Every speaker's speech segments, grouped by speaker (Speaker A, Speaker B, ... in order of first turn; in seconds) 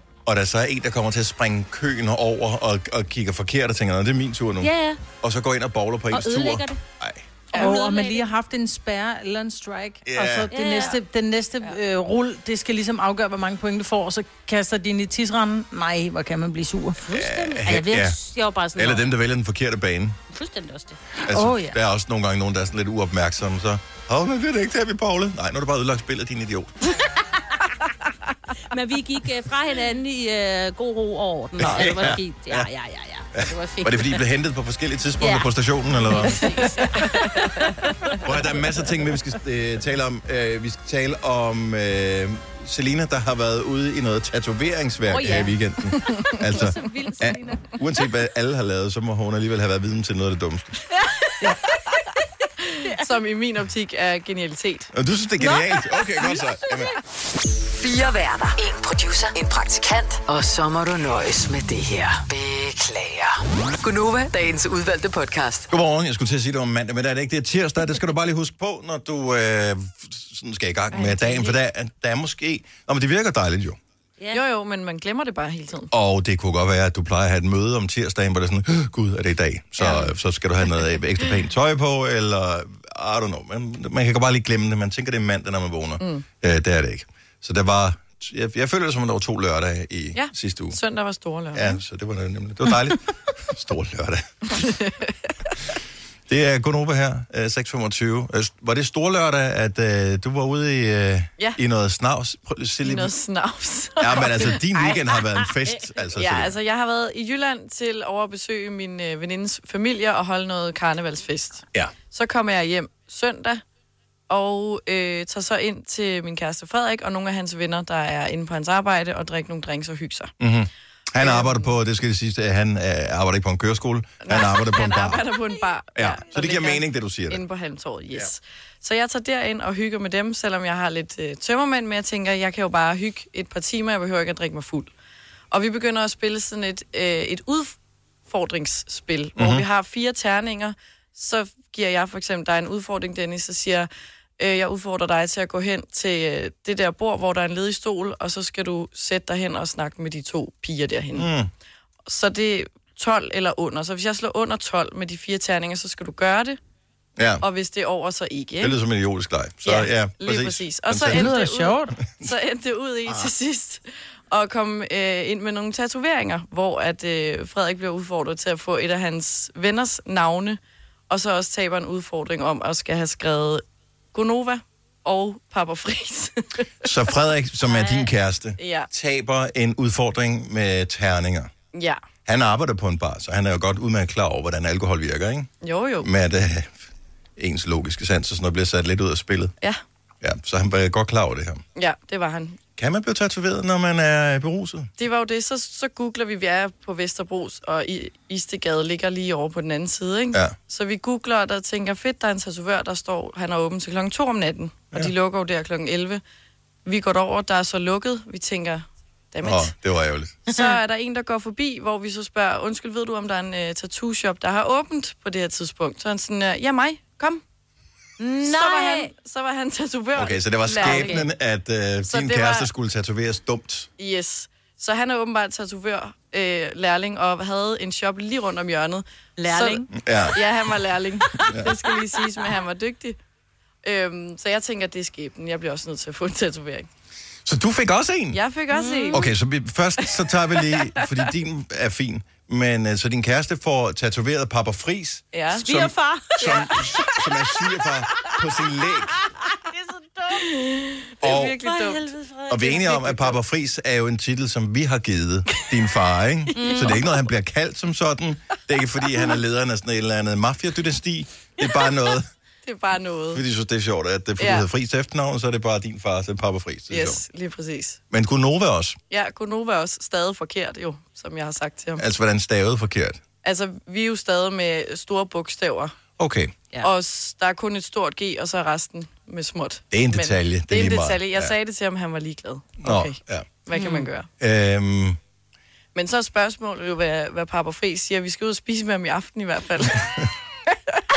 Speaker A: 0.2-7.2, 10.1-10.5, 17.1-18.2, 18.8-20.2, 21.2-26.9, 31.6-32.7, 33.3-36.5, 38.2-50.7, 54.9-56.9, 65.7-73.8, 75.9-90.8, 91.5-94.5, 96.3-103.1, 104.0-106.6, 120.4-125.2, 126.0-127.4, 139.3-139.6, 151.1-151.5, 157.2-157.4, 158.6-161.3, 176.8-181.5, 182.2-185.5, 186.0-186.8, 187.4-189.5, 190.2-191.6, 192.8-194.9, 209.4-210.4, 220.1-223.9, 229.9-230.4, 231.4-231.7, 237.4-238.4, 239.1-249.1, 251.2-251.6, 252.5-262.3, 263.3-267.2, 268.1-269.0, 272.0-273.2, 276.2-276.5, 279.9-281.5, 282.8-283.5, 284.4-285.2
Speaker B: 4.6-5.0, 6.1-6.8, 7.5-8.3, 10.5-10.9, 17.0-19.1, 20.3-21.7, 28.7-34.2, 35.2-38.2, 45.1-45.5, 46.5-47.7, 177.6-178.1, 218.2-219.1, 220.8-221.3, 229.4-229.9, 238.7-239.2, 245.5-247.1, 249.4-250.4, 251.6-253.3, 256.5-257.1, 283.7-284.1
Speaker C: 7.5-7.8, 36.4-37.5, 51.4-52.0, 52.6-54.9, 70.9-71.5, 74.3-75.9, 86.0-86.2, 90.1-91.8, 94.5-95.5, 102.8-105.1, 106.2-113.6, 114.3-120.3, 121.2-121.7, 124.2-134.9, 135.5-137.8, 138.3-151.3, 152.1-156.6, 157.4-158.8, 159.6-173.6, 174.1-176.9, 178.6-178.9, 181.7-182.0, 185.6-186.1, 191.8-192.6, 195.0-206.2, 206.8-209.7, 210.5-217.4, 218.4-221.2, 222.1-222.7, 224.0-233.2, 233.8-236.9, 238.3-239.3, 240.2-241.1, 245.3-245.7, 246.4-246.9, 250.3-252.1, 256.6-256.9, 262.6-263.4, 264.4-264.7, 266.9-268.0, 269.1-272.0, 273.4-275.9, 276.8-284.3, 285.9-290.2
Speaker D: 7.5-17.0, 161.0-162.0
Speaker E: 57.7-65.7